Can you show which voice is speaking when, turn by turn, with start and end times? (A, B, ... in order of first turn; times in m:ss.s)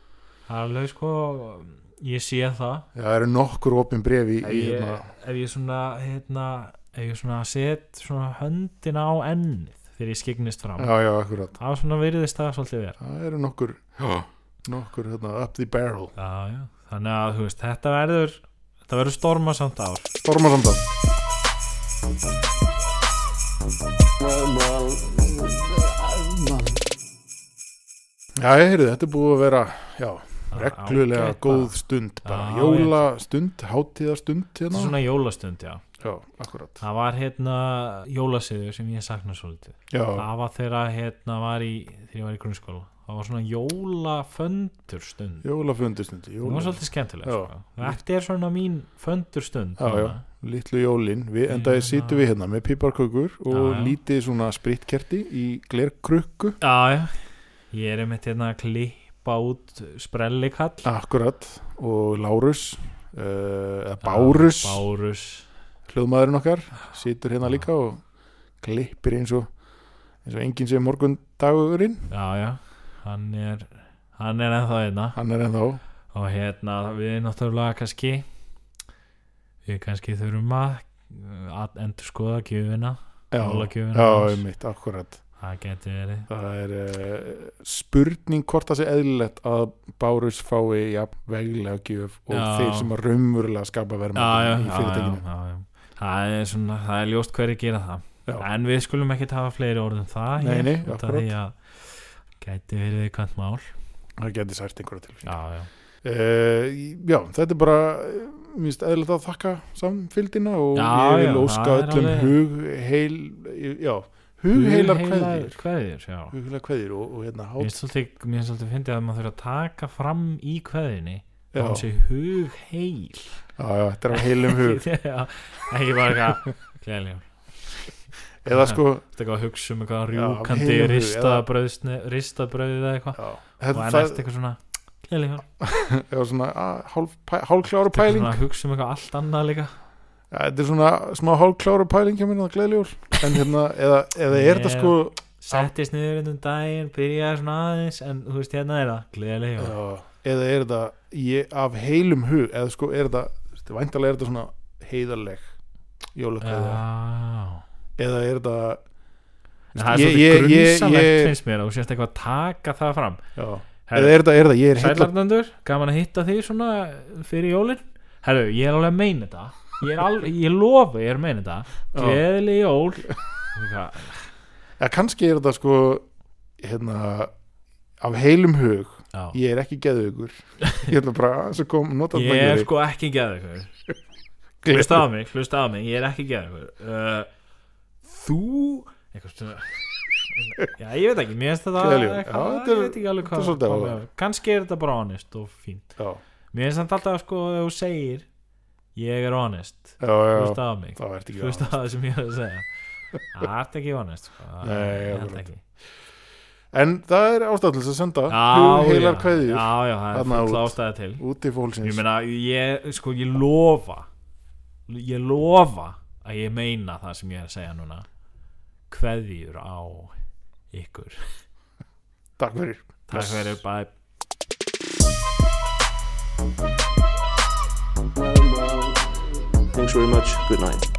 0:00.5-0:02.9 A
0:02.9-0:05.1 B
0:04.4-0:11.0 A
0:10.8-0:11.6 B
0:11.6-0:13.0 A
0:13.0-0:16.1 B
0:16.2-0:20.1 A
0:20.2-0:20.8 B
0:24.2-0:26.8 C
0:28.4-0:34.9 B
0:30.5-0:31.7 A
0:32.2-0:33.0 A
0:34.7-0:35.8 A
0:36.0-0:36.8 B
0:36.8-0:45.4 A
0:39.9-0:40.2 B
0:45.4-0:48.0 B
0:46.4-0:50.2 A
0:49.8-0:56.6 B
0:51.5-0:52.2 A
0:53.5-0:53.9 A
0:56.6-0:57.2 A
0:57.7-1:00.9 A
1:00.8-1:04.8 B
1:04.0-1:05.5 A
1:05.9-1:08.0 B
1:08.6-1:09.5 B
1:10.2-1:12.1 B
1:12.1-1:15.2 A
1:15.1-1:15.8 B
1:16.1-1:18.2 A
1:19.6-1:24.4 A
1:23.3-1:25.2 B
1:25.4-1:26.3 A
1:26.3-1:35.2 B
1:32.3-1:32.9 A
1:34.1-1:43.7 A
1:40.4-1:41.3 B
1:44.2-1:45.3 B
1:45.2-1:45.7 A
1:46.0-1:55.5 B
1:50.7-1:52.3 A
1:54.5-1:56.3 A
1:56.3-1:57.7 B
1:57.6-2:03.4 A
2:01.5-2:01.8 B
2:03.6-2:04.8 B
2:04.1-2:07.9 A
2:08.4-2:09.0 B
2:08.5-2:15.4 A
2:10.1-2:11.4 B
2:13.2-2:14.2 B
2:15.6-2:18.4 B
2:17.9-2:19.7 A
2:20.3-2:25.7 B
2:24.3-2:29.8 A
2:29.6-2:35.5 B
2:36.1-2:36.8 B
2:36.4-2:37.6 A
2:38.0-2:38.8 B
2:39.7-2:43.2 A
2:39.7-2:41.3 B
2:43.4-2:45.1 B
2:43.8-2:44.2 A
2:44.7-2:54.3 A
2:51.9-2:52.2 B
2:54.8-2:56.0 B
2:56.6-2:57.3 B
2:58.0-3:02.7 B
3:02.1-3:03.7 A
3:04.6-3:05.0 B
3:04.6-3:07.3 A
3:08.0-3:15.9 A
3:11.8-3:14.0 B
3:16.5-3:18.3 A
3:18.9-3:22.7 A
3:20.0-3:21.7 B
3:23.3-3:25.6 A
3:24.6-3:25.4 B
3:26.7-3:32.0 B
3:28.3-3:31.2 A
3:31.8-3:34.1 A
3:34.9-3:38.0 A
3:38.9-3:40.1 A
3:40.7-3:41.3 A
3:42.4-3:43.6 B
3:43.1-3:43.9 A
3:48.1-3:50.9 C